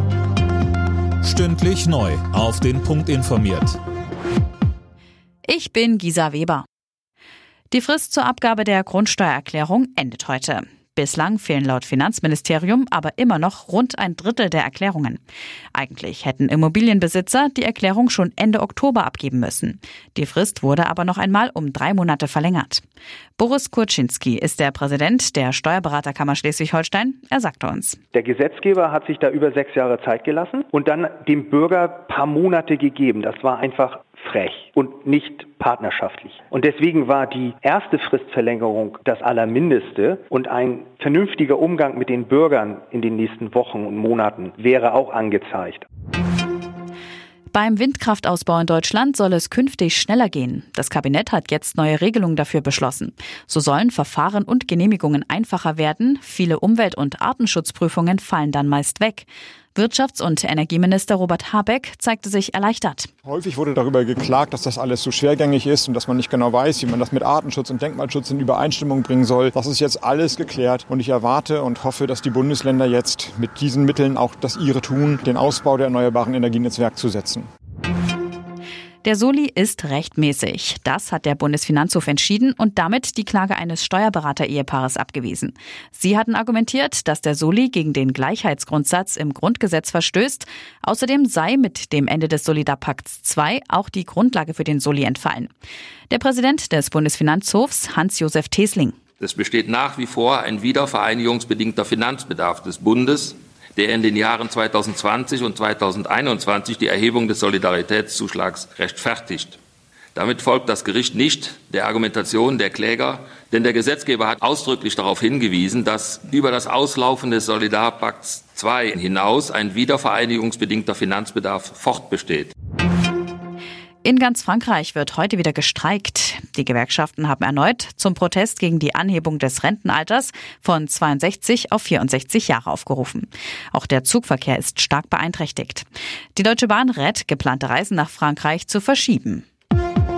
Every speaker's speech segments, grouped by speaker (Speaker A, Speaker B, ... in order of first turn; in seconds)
Speaker A: 1.2-3.8
Speaker B: 5.5-6.6, 7.7-15.2, 15.7-22.8, 23.4-28.0, 47.5-63.1, 79.0-95.5, 96.1-99.0, 124.0-139.4
Speaker C: 28.1-45.9
Speaker D: 63.2-77.5
Speaker E: 99.2-109.6, 110.1-122.5